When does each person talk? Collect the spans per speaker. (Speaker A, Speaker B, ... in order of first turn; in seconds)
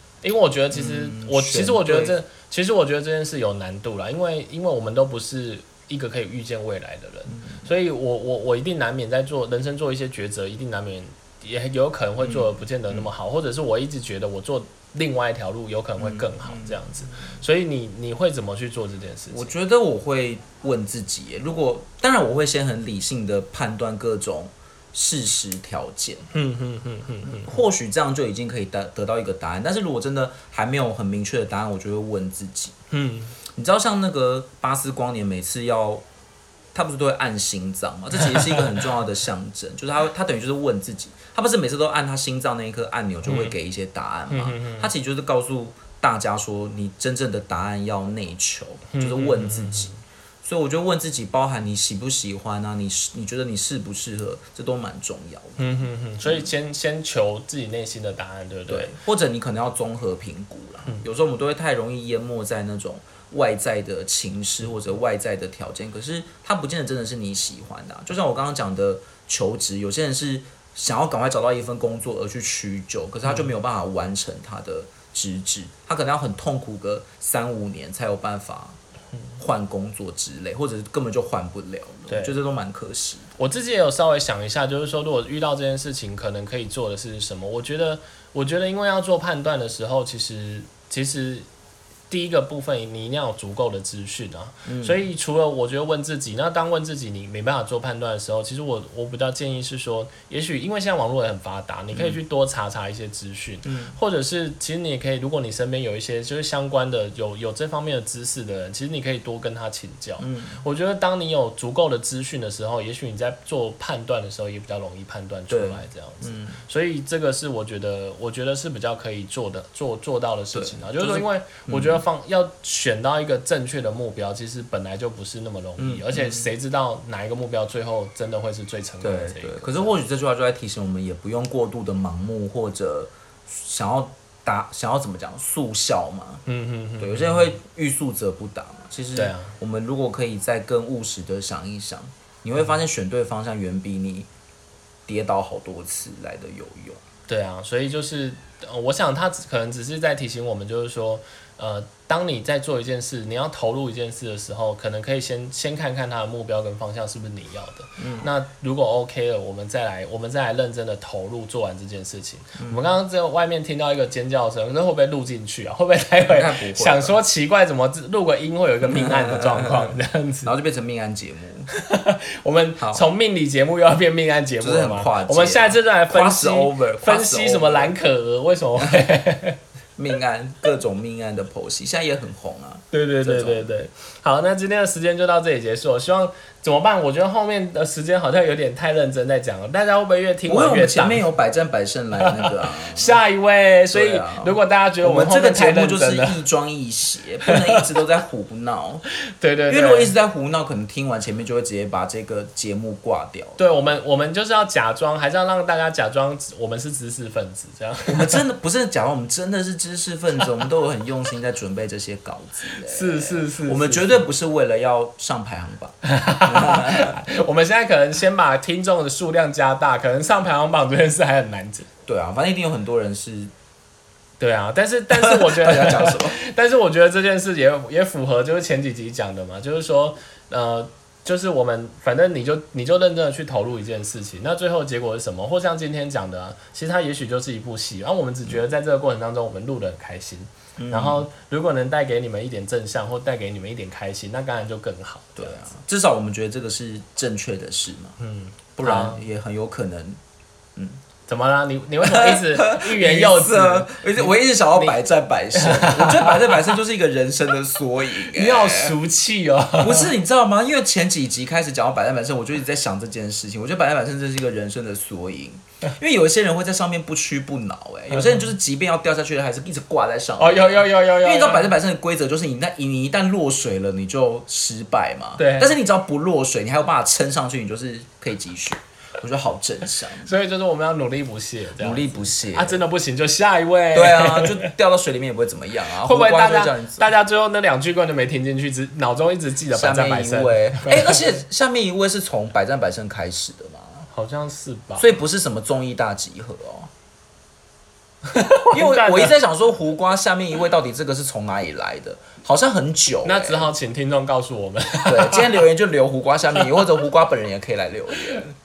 Speaker A: 0.2-19.5, 26.3-27.6, 32.9-33.3, 43.2-43.5, 44.3-44.9, 48.9-50.0, 55.6-58.9, 73.2-73.5, 82.1-82.3, 83.4-91.5, 92.1-129.9, 136.4-137.6, 139.1-139.5, 147.3-170.5, 171.7-179.6, 182.9-191.3, 192.2-196.4, 197.4-197.8, 199.4-200.1, 203.6-208.4, 212.8-214.2, 216.0-221.9, 224.4-245.5, 248.2-249.2, 251.2-255.0, 255.5-256.8, 258.3-260.1, 268.1-268.5, 270.4-271.7, 275.4-275.7, 280.2-284.7, 286.0-291.3, 294.1-295.1, 298.2-299.3, 303.2-305.6
Speaker B: 0.7-2.1, 7.3-7.7, 12.2-13.1, 16.0-17.4, 19.3-26.3, 27.3-32.7, 33.5-36.0, 36.7-49.9, 50.4-55.7, 56.2-56.5, 58.7-78.8, 79.4-83.2, 94.7-95.0, 101.9-102.2, 103.6-104.0, 110.2-110.6, 115.5-116.6, 120.5-122.0, 125.8-126.5, 129.0-136.4, 137.0-144.3, 145.1-147.0, 158.0-158.3, 162.6-162.9, 166.3-167.2, 168.8-171.7, 172.8-173.1, 174.6-177.9, 178.8-179.1, 180.0-183.7, 190.5-193.2, 193.9-199.0, 199.7-203.9, 208.1-217.2, 222.1-223.5, 225.1-226.4, 240.8-241.3, 245.4-248.2, 248.8-250.2, 250.8-251.0, 252.0-259.0, 259.8-280.3, 281.8-282.8, 283.9-287.1, 289.7-294.0, 295.0-296.9, 298.7-303.7, 305.1-308.5